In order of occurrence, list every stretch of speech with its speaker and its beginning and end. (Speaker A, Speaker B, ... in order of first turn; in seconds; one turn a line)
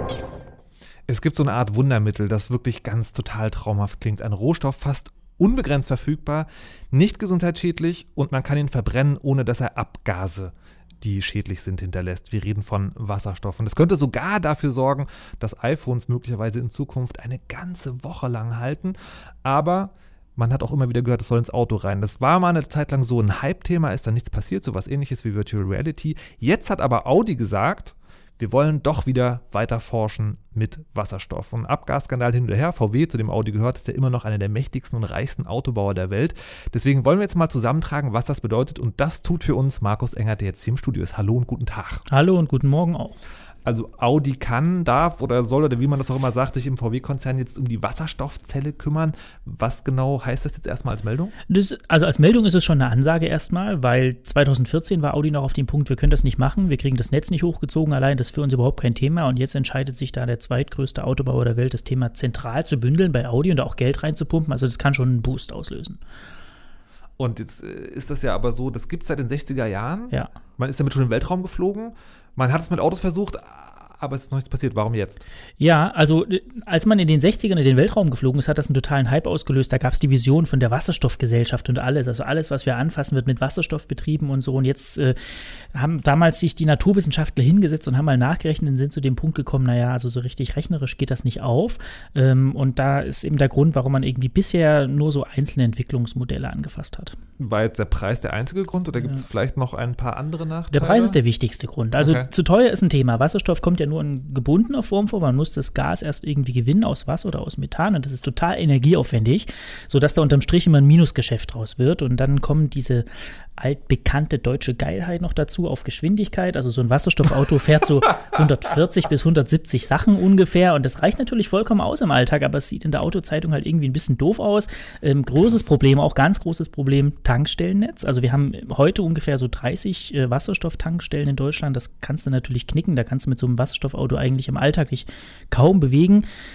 Speaker A: 1.1-42.0
Speaker B: 42.1-43.2
Speaker A: 43.6-51.3
Speaker B: 51.5-66.0
Speaker A: 67.2-75.2
Speaker B: 75.6-97.2
Speaker A: 97.4-101.2
Speaker B: 100.7-113.0
Speaker A: 102.0-102.3
Speaker B: 113.6-136.2